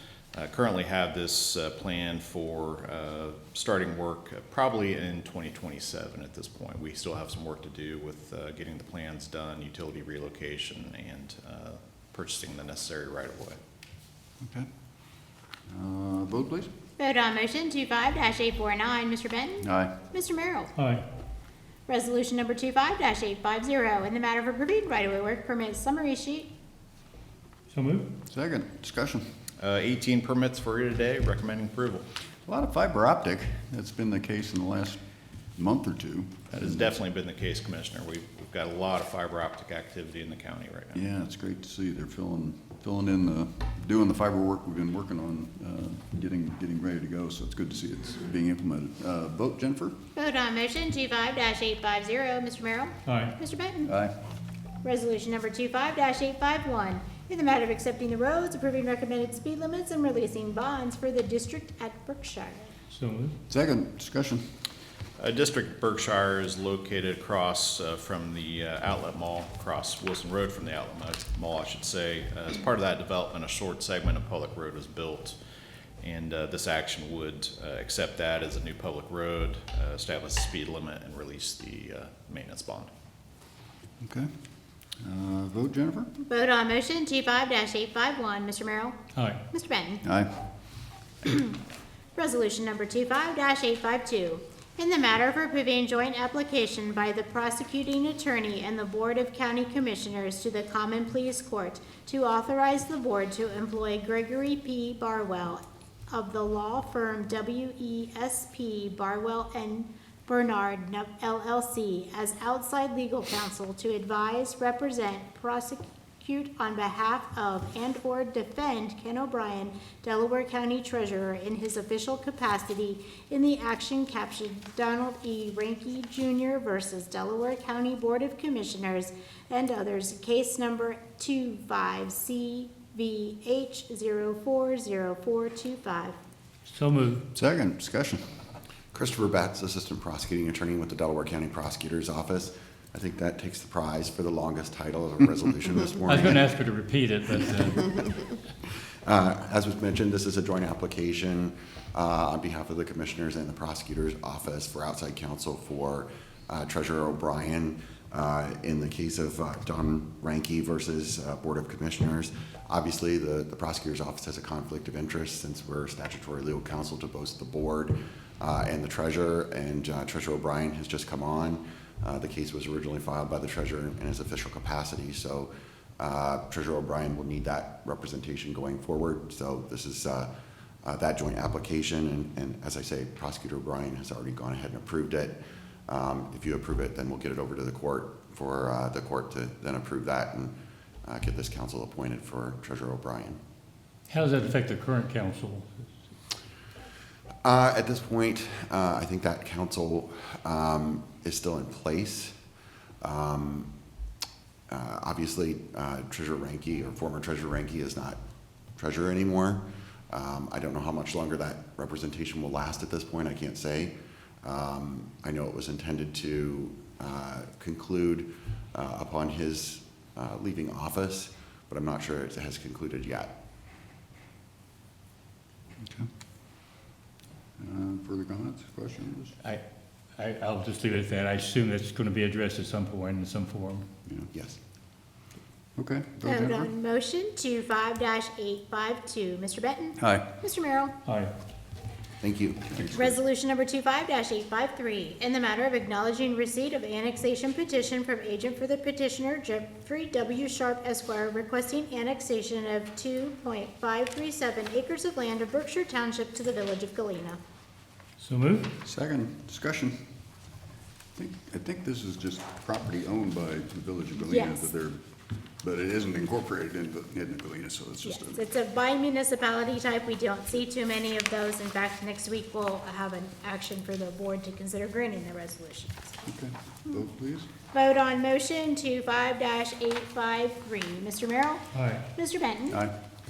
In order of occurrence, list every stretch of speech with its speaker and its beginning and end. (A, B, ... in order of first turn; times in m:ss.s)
0:00.3-0:13.6 A
0:15.7-0:16.7 B
0:17.0-0:20.7 C
0:19.6-0:19.9 B
0:20.8-0:21.0 D
0:21.9-0:26.5 C
0:27.7-0:28.1 D
0:28.3-0:29.2 B
0:29.6-0:32.1 A
0:32.5-0:35.0 B
0:35.6-0:36.9 B
0:36.5-0:41.1 A
0:41.0-0:50.0 B
0:50.2-0:53.9 C
0:53.1-0:53.4 D
0:53.8-0:54.1 B
0:54.8-1:02.7 C
1:02.9-1:03.4 D
1:03.5-1:04.4 B
1:05.2-1:15.4 A
1:16.0-1:22.9 A
1:24.0-1:24.3 B
1:25.0-1:26.1 B
1:26.2-1:30.0 C
1:29.2-1:29.4 D
1:30.0-1:30.3 B
1:31.2-1:31.6 C
1:32.2-2:16.2 C
2:16.7-2:17.2 D
2:17.3-2:18.2 B
2:18.9-2:26.4 E
2:26.1-2:27.9 D
2:29.0-3:00.3 E
3:00.8-3:10.5 E
3:11.0-3:13.4 E
3:14.1-3:15.9 D
3:17.4-3:22.3 E
3:23.0-3:23.7 E
3:24.7-3:28.2 E
3:28.8-3:43.3 E
3:45.8-3:46.1 B
3:47.6-3:49.3 B
3:50.2-3:53.9 D
3:54.3-3:54.6 E
3:55.8-3:56.7 B
3:56.2-4:00.9 C
4:00.0-4:00.2 B
4:01.1-4:01.3 D
4:02.2-4:03.1 E
4:02.9-4:17.4 C
4:18.2-4:18.7 D
4:18.8-4:20.0 B
4:21.2-4:25.0 B
4:24.2-4:24.7 C
4:25.6-4:28.4 B
4:28.0-4:36.2 C
4:36.3-4:37.5 B
4:37.7-4:42.8 C
4:41.7-4:42.1 D